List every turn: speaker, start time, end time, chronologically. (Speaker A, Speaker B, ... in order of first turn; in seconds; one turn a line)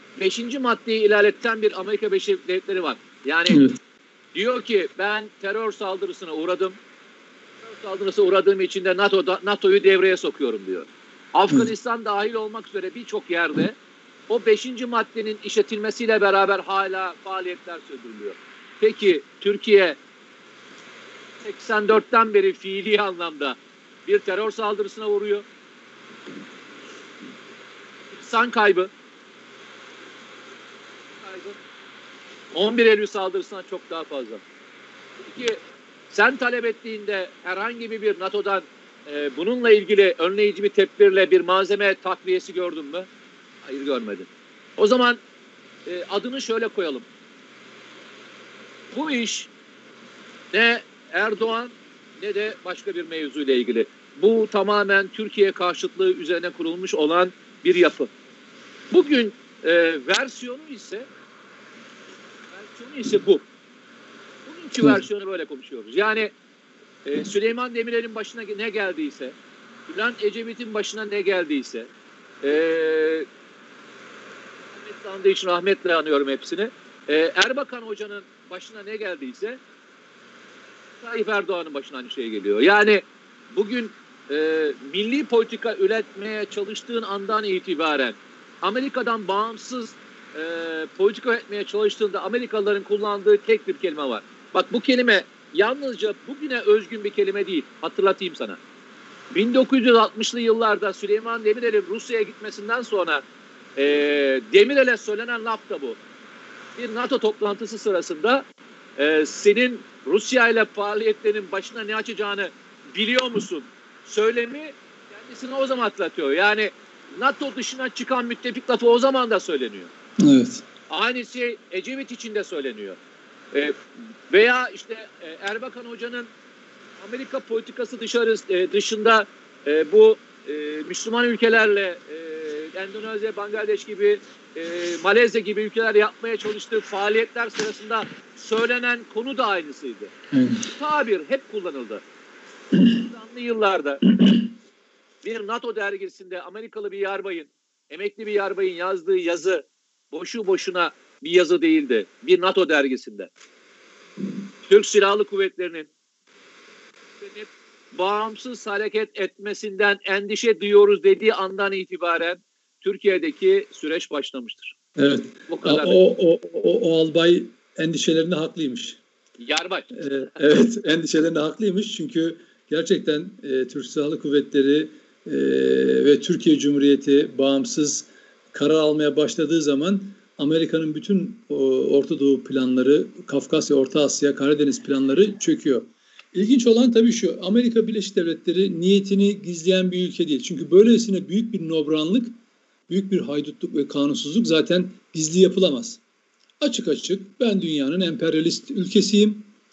Speaker A: 0.2-3.6
Speaker B: 3.5-3.8
Speaker A: 4.3-6.8
Speaker A: 7.7-13.8
Speaker A: 14.3-20.0
Speaker A: 21.4-25.5
Speaker A: 28.2-28.9
Speaker A: 31.2-31.6
Speaker A: 32.5-34.4
Speaker A: 35.2-35.6
Speaker A: 36.1-43.1
Speaker A: 43.6-45.2
Speaker A: 45.9-47.1
Speaker A: 48.9-49.5
Speaker A: 50.5-58.1
Speaker A: 58.9-61.1
Speaker A: 62.5-63.5
Speaker A: 64.5-66.3
Speaker B: 64.8-65.0
Speaker A: 67.0-69.3
Speaker A: 69.9-71.9
Speaker A: 72.4-73.3
Speaker A: 74.8-79.6
Speaker A: 81.0-98.6
Speaker A: 99.3-103.2
Speaker A: 103.8-106.0
Speaker A: 106.8-119.9
Speaker B: 120.2-120.7
Speaker A: 120.9-123.0
Speaker A: 123.5-126.3
Speaker A: 127.0-140.1
Speaker B: 140.3-140.7
Speaker A: 140.7-142.0
Speaker A: 142.8-144.2
Speaker A: 145.2-153.3
Speaker A: 154.7-155.9
Speaker A: 157.2-164.8
Speaker B: 165.0-169.0
Speaker A: 165.5-166.0
Speaker A: 169.4-169.9
Speaker B: 169.9-192.3
Speaker B: 192.9-196.0
Speaker B: 196.6-199.5